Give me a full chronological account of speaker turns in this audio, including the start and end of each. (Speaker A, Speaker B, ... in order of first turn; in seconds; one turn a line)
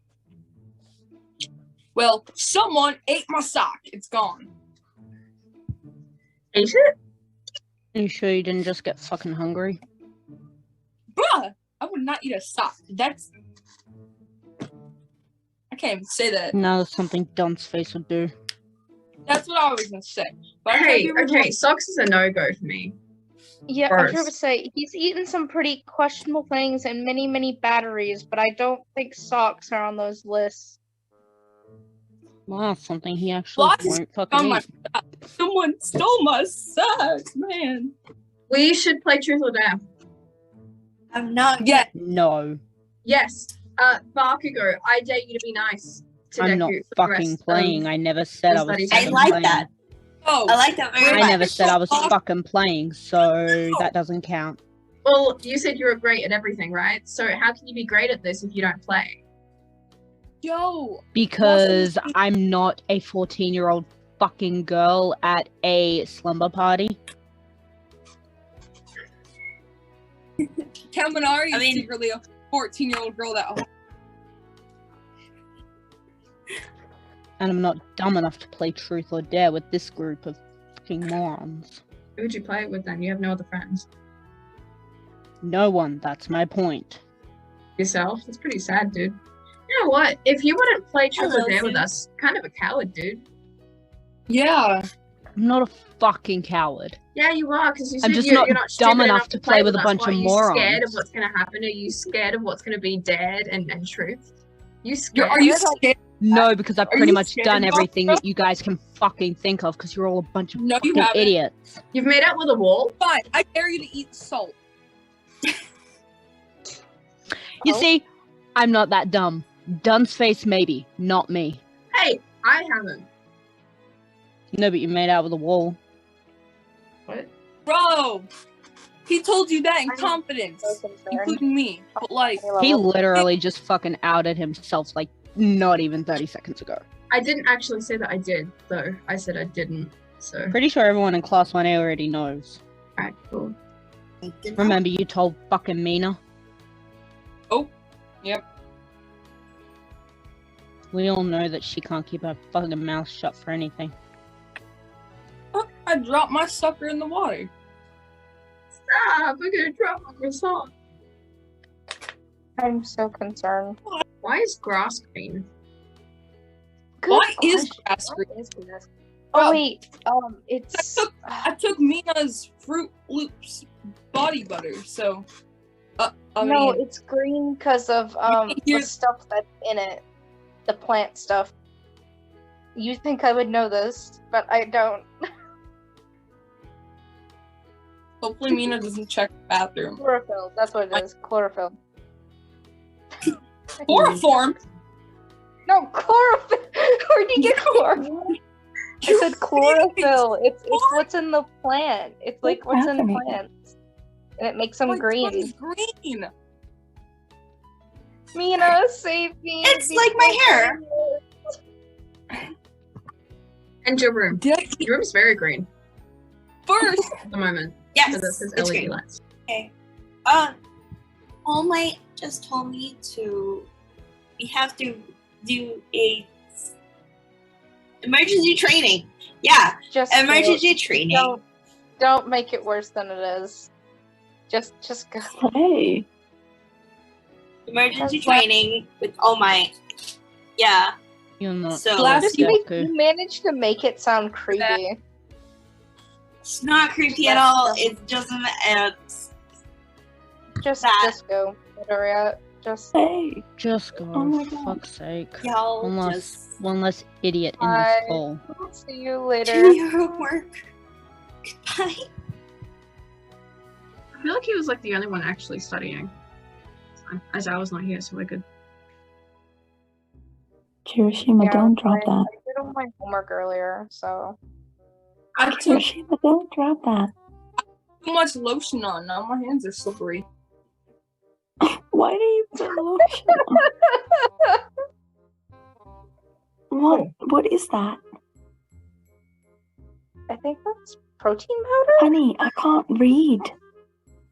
Speaker A: 1.9-4.5
Speaker B: 6.5-6.9
Speaker C: 7.9-9.8
Speaker A: 11.2-13.3
Speaker A: 15.7-16.6
Speaker C: 16.5-18.3
Speaker A: 19.3-21.5
Speaker B: 20.7-23.0
Speaker D: 23.7-30.8
Speaker B: 23.9-24.3
Speaker C: 32.5-34.6
Speaker A: 33.6-37.9
Speaker B: 38.5-39.8
Speaker E: 41.1-41.9
Speaker A: 41.6-41.9
Speaker C: 41.9-42.6
Speaker B: 43.0-47.9
Speaker C: 46.4-49.7
Speaker B: 48.5-49.4
Speaker E: 48.9-49.7
Speaker A: 50.2-52.1
Speaker E: 50.5-52.1
Speaker C: 51.1-54.6
Speaker B: 55.0-59.2
Speaker A: 60.4-62.1
Speaker C: 61.1-67.0
Speaker A: 70.9-73.7
Speaker E: 71.5-71.9
Speaker C: 77.4-81.8
Speaker B: 82.2-83.9
Speaker C: 85.4-87.0
Speaker B: 87.8-89.2
Speaker B: 89.7-93.2
Speaker E: 91.2-91.9
Speaker A: 94.3-94.9
Speaker C: 95.4-97.0
Speaker B: 97.1-104.2
Speaker C: 98.0-101.0
Speaker B: 104.8-105.8
Speaker A: 105.1-108.2
Speaker C: 106.2-111.8
Speaker A: 110.5-111.3
Speaker B: 111.9-113.0
Speaker A: 113.0-114.6
Speaker C: 117.6-121.6
Speaker B: 121.9-123.1
Speaker C: 124.5-125.8
Speaker A: 127.7-128.3
Speaker A: 129.1-132.5
Speaker D: 129.9-131.4
Speaker D: 132.4-132.9
Speaker C: 132.6-136.8
Speaker B: 137.1-140.6
Speaker C: 140.5-142.6
Speaker B: 143.0-143.6
Speaker E: 144.2-144.8
Speaker C: 144.6-146.2
Speaker C: 150.9-153.9
Speaker A: 155.5-157.5
Speaker B: 158.9-160.7
Speaker D: 162.6-163.8
Speaker B: 164.2-165.5
Speaker D: 167.0-171.5
Speaker A: 167.1-168.3
Speaker A: 169.3-169.6
Speaker A: 170.7-175.2
Speaker A: 176.0-176.8
Speaker D: 176.4-180.0
Speaker A: 178.3-178.9
Speaker D: 180.7-181.5
Speaker D: 182.8-185.1
Speaker A: 188.2-190.0
Speaker D: 190.0-191.8
Speaker D: 193.8-194.2
Speaker A: 193.9-194.6
Speaker D: 195.7-198.3
Speaker A: 197.4-198.1
Speaker A: 199.0-201.1
Speaker D: 199.1-203.5
Speaker F: 202.4-203.4
Speaker D: 204.4-205.5
Speaker A: 204.9-206.3
Speaker D: 208.3-211.3
Speaker E: 209.6-210.8
Speaker B: 213.8-215.7
Speaker A: 214.3-214.9
Speaker A: 216.7-217.2
Speaker B: 217.2-219.2
Speaker E: 217.9-218.9
Speaker E: 219.5-219.7
Speaker E: 220.3-220.6
Speaker E: 221.5-223.7
Speaker E: 224.4-226.7
Speaker E: 228.0-231.4
Speaker D: 229.9-231.4
Speaker D: 232.0-233.7
Speaker D: 234.5-235.3
Speaker F: 235.2-236.1
Speaker E: 237.7-239.8
Speaker D: 237.9-238.5
Speaker E: 240.6-240.9
Speaker C: 241.4-242.9
Speaker E: 241.7-242.3
Speaker A: 242.0-242.6
Speaker D: 242.3-245.0
Speaker A: 244.5-244.8
Speaker E: 246.4-249.3
Speaker D: 247.2-248.0
Speaker D: 250.6-252.9
Speaker E: 250.8-251.2
Speaker F: 252.9-253.4
Speaker C: 253.6-258.4
Speaker F: 254.1-254.8
Speaker E: 255.4-256.5
Speaker D: 257.6-259.9
Speaker E: 259.4-260.7
Speaker E: 261.6-262.1
Speaker B: 264.2-266.1
Speaker B: 267.0-268.4
Speaker F: 270.9-272.3
Speaker D: 271.4-274.4
Speaker F: 275.4-277.1
Speaker A: 278.0-280.3
Speaker F: 281.6-283.6
Speaker F: 286.7-288.0
Speaker D: 290.3-292.1
Speaker F: 292.0-293.5